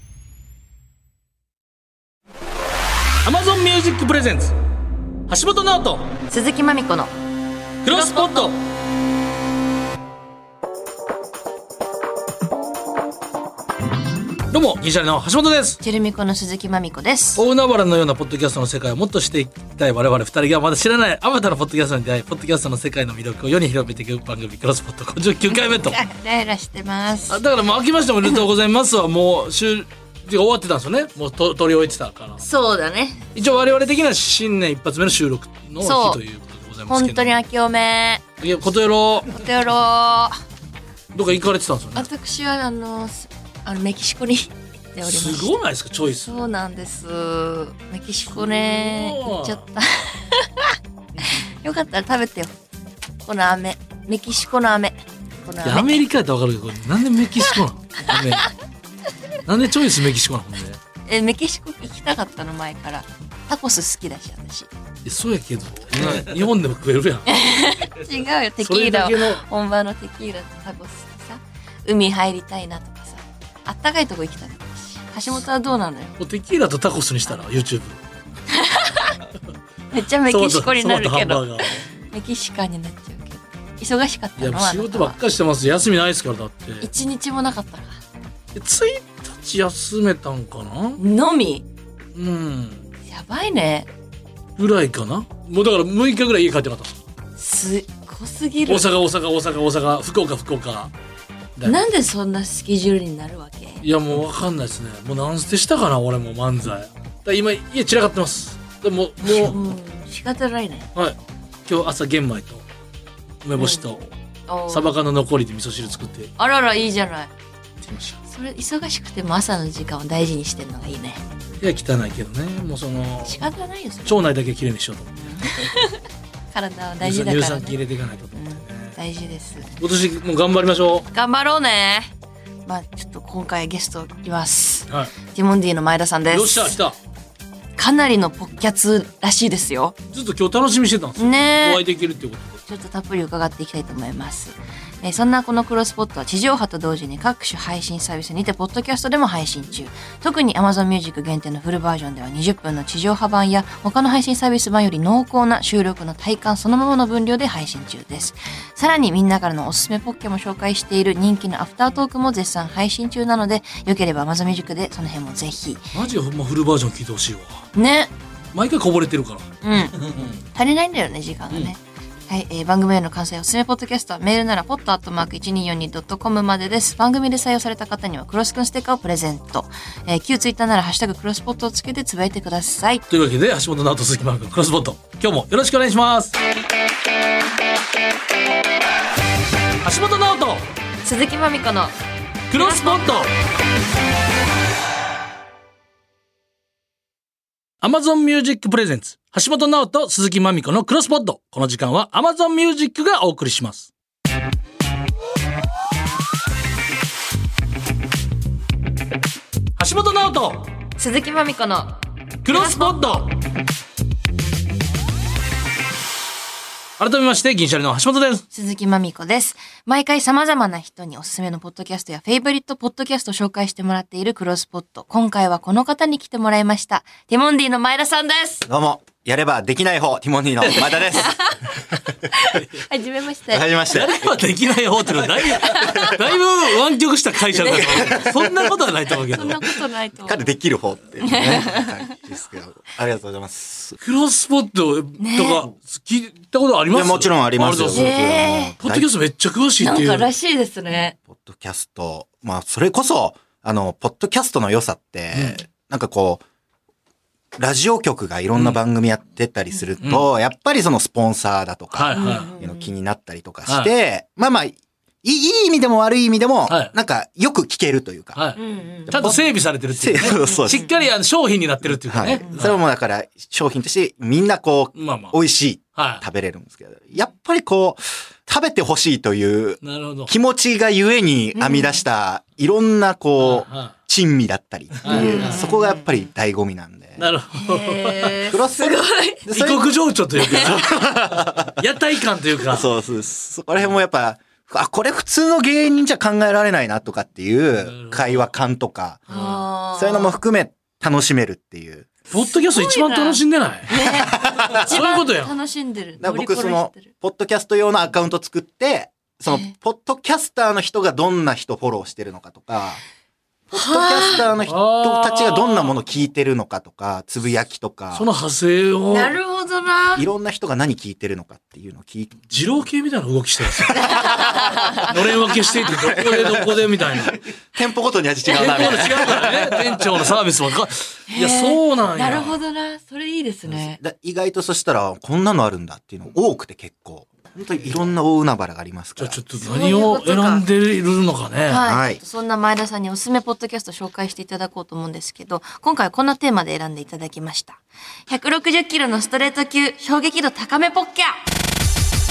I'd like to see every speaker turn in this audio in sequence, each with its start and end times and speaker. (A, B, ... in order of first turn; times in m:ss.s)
0:03.2-0:04.6 A
0:05.3-0:06.2 A
0:06.3-0:07.1 B
0:07.8-0:08.6 A
0:07.9-0:08.5 B
0:14.5-0:15.8 A
0:15.8-0:17.4 B
0:17.4-0:26.0 A
0:25.4-0:27.4 B
0:27.3-0:32.4 A
0:32.4-0:33.3 B
0:33.4-0:37.4 A
0:35.8-0:36.2 B
0:36.9-0:38.2 B
0:38.4-0:39.3 A
0:39.3-0:40.4 B
0:41.1-0:42.1 A
0:42.0-0:45.5 B
0:45.0-0:46.5 A
0:46.2-0:50.7 B
0:48.4-0:49.6 A
0:51.6-0:52.5 B
0:53.2-0:56.0 B
0:55.6-0:58.5 A
0:59.5-1:00.8 A
1:01.1-1:04.7 B
1:05.0-1:07.3 A
1:07.3-1:16.2 B
1:08.6-1:09.4 A
1:16.2-1:18.0 A
1:18.5-1:19.2 B
1:19.9-1:25.2 B
1:20.3-1:21.8 A
1:24.4-1:26.8 A
1:26.8-1:27.9 B
1:28.6-1:31.0 A
1:31.0-1:31.7 B
1:32.2-1:32.8 A
1:33.1-1:33.9 B
1:34.6-1:37.0 A
1:37.4-1:38.9 B
1:38.7-1:40.9 A
1:41.6-1:41.8 A
1:41.6-1:43.8 B
1:43.8-1:49.6 A
1:49.3-1:50.9 B
1:51.0-1:52.6 A
1:53.4-1:54.1 A
1:53.6-1:53.8 B
1:54.5-1:55.0 B
1:54.7-1:56.3 A
1:56.4-1:57.3 B
1:57.8-1:58.2 A
1:58.3-2:01.2 B
2:01.6-2:03.4 A
2:03.2-2:04.3 B
2:04.0-2:05.1 A
2:05.2-2:07.8 B
2:07.0-2:09.0 A
2:08.3-2:09.7 B
2:09.8-2:11.1 A
2:11.1-2:12.1 B
2:12.7-2:16.8 B
2:16.3-2:17.0 A
2:17.8-2:20.0 B
2:20.1-2:22.6 A
2:21.2-2:21.8 B
2:22.7-2:45.9 B
2:45.9-2:47.6 A
2:47.8-2:48.1 B
2:48.5-2:49.5 A
2:49.6-2:50.0 B
2:50.5-3:03.0 B
3:03.1-3:06.4 A
3:09.8-3:10.7 A
3:11.0-3:12.0 B
3:12.5-3:13.3 A
3:12.5-3:13.2 B
3:17.8-3:23.9 A
3:29.8-3:30.7 A
3:31.0-3:33.0 B
3:32.4-3:33.3 A
3:37.0-3:38.4 A
3:38.5-3:48.7 B
3:48.7-3:52.2 C
3:50.9-3:51.5 B
3:52.5-3:53.7 B
3:52.6-3:52.8 A
3:53.5-3:54.3 C
3:53.9-3:59.6 A
3:55.5-3:56.2 B
3:57.5-3:58.2 B
3:58.0-3:58.7 C
3:59.3-4:00.4 B
4:00.3-4:04.0 C
4:01.2-4:01.8 B
4:04.0-4:08.2 A
4:05.2-4:05.7 B
4:06.9-4:09.1 C
4:07.9-4:08.8 B
4:08.8-4:10.3 A
4:09.8-4:11.2 B
4:11.3-4:16.4 C
4:15.3-4:15.6 A
4:17.6-4:28.4 C
4:20.0-4:20.3 A
4:21.9-4:22.5 A
4:22.1-4:22.9 B
4:23.7-4:23.9 A
4:28.4-4:32.8 A
4:28.6-4:29.4 B
4:29.1-4:30.9 C
4:30.4-4:31.1 B
4:31.8-4:47.2 C
4:35.0-4:35.4 A
4:36.0-4:36.2 A
4:39.8-4:40.3 A
4:41.5-4:42.0 B
4:43.4-4:43.9 A
4:45.0-4:45.7 A
4:45.0-4:46.3 B
4:47.2-4:48.4 A
4:47.6-4:49.4 B
4:48.5-4:50.0 C
4:49.5-4:52.9 A
4:50.4-4:50.8 B
4:50.5-4:51.8 C
4:52.7-4:59.3 C
4:57.8-4:58.5 A
4:59.3-4:59.7 A
4:59.3-5:00.4 B
5:00.0-5:02.1 C
5:02.3-5:03.9 A
5:02.4-5:07.1 B
5:04.0-5:04.9 C
5:04.7-5:05.6 A
5:06.2-5:13.0 C
5:09.5-5:09.7 B
5:13.7-5:18.3 C
5:13.7-5:14.5 B
5:14.7-5:16.0 A
5:18.1-5:19.4 A
5:19.1-5:20.3 B
5:20.2-5:22.4 C
5:22.5-5:24.0 A
5:24.0-5:25.0 B
5:25.0-5:27.4 A
5:26.0-5:26.8 C
5:27.7-5:29.8 C
5:28.5-5:32.6 A
5:31.3-5:34.0 B
5:33.7-5:39.4 C
5:39.2-5:41.8 A
5:39.6-5:40.6 B
5:41.6-5:51.4 B
5:41.8-5:42.2 C